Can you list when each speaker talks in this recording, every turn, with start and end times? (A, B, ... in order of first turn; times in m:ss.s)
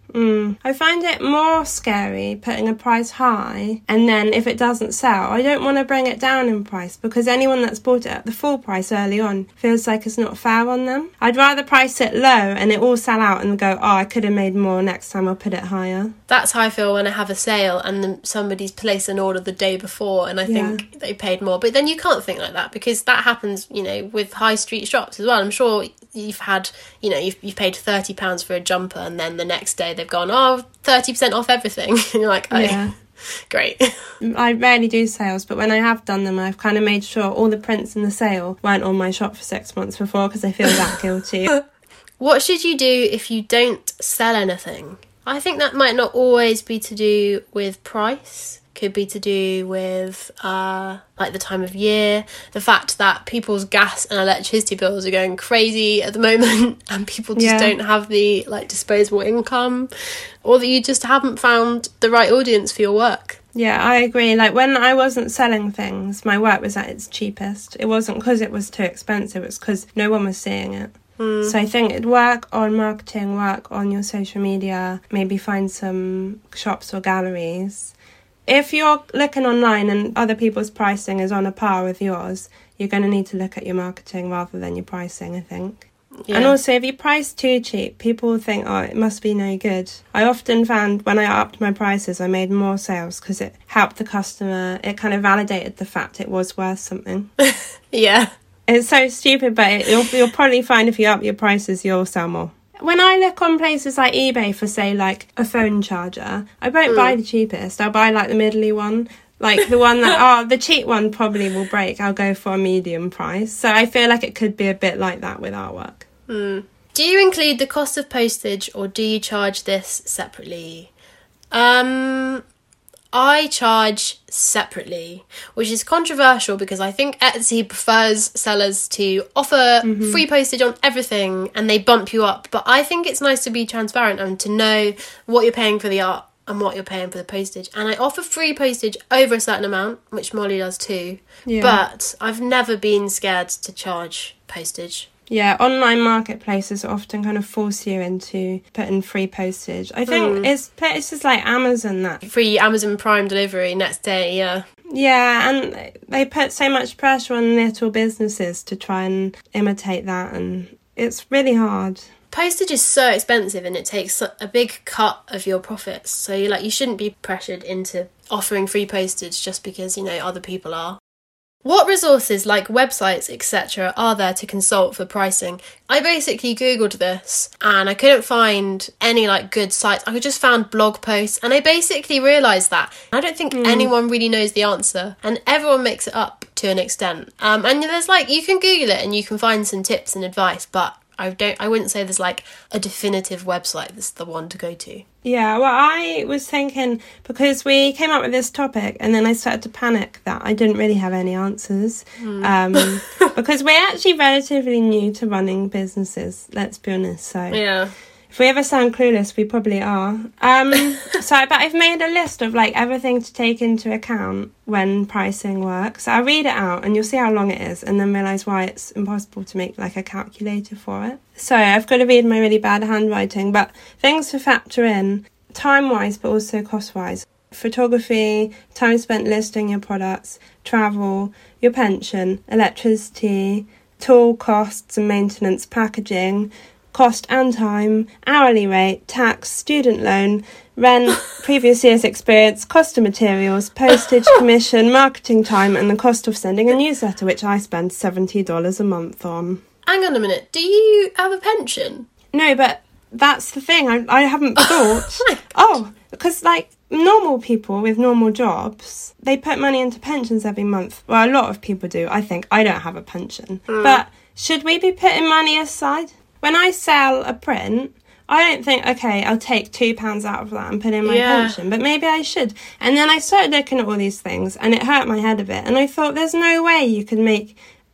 0:00.1-0:16.1 A
0:16.3-0:32.9 B
0:20.5-0:20.8 A
0:32.5-0:32.9 A
0:33.5-0:33.9 B
0:34.2-0:41.5 A
0:42.2-0:59.9 B
0:57.4-0:57.7 A
1:00.4-1:03.4 B
1:03.5-1:17.9 A
1:11.2-1:11.5 B
1:18.4-1:37.3 A
1:26.3-1:26.6 B
1:37.4-1:38.3 B
1:38.7-1:56.0 A
1:46.9-1:47.2 B
1:56.3-2:00.9 B
2:01.5-2:02.4 B
2:03.1-2:25.1 B
2:09.8-2:10.2 A
2:21.5-2:21.8 A
2:25.3-2:32.2 A
2:30.1-2:30.5 B
2:32.2-2:34.6 B
2:34.9-2:42.0 A
2:42.3-2:51.0 B
2:51.6-3:15.0 B
3:03.5-3:03.9 A
3:15.2-3:27.6 A
3:22.2-3:23.3 B
3:27.5-3:27.9 B
3:28.3-4:09.6 A
4:09.9-4:12.1 B
4:12.3-4:37.6 A
4:14.6-4:15.5 B
4:23.7-4:24.0 B
4:31.0-4:31.6 B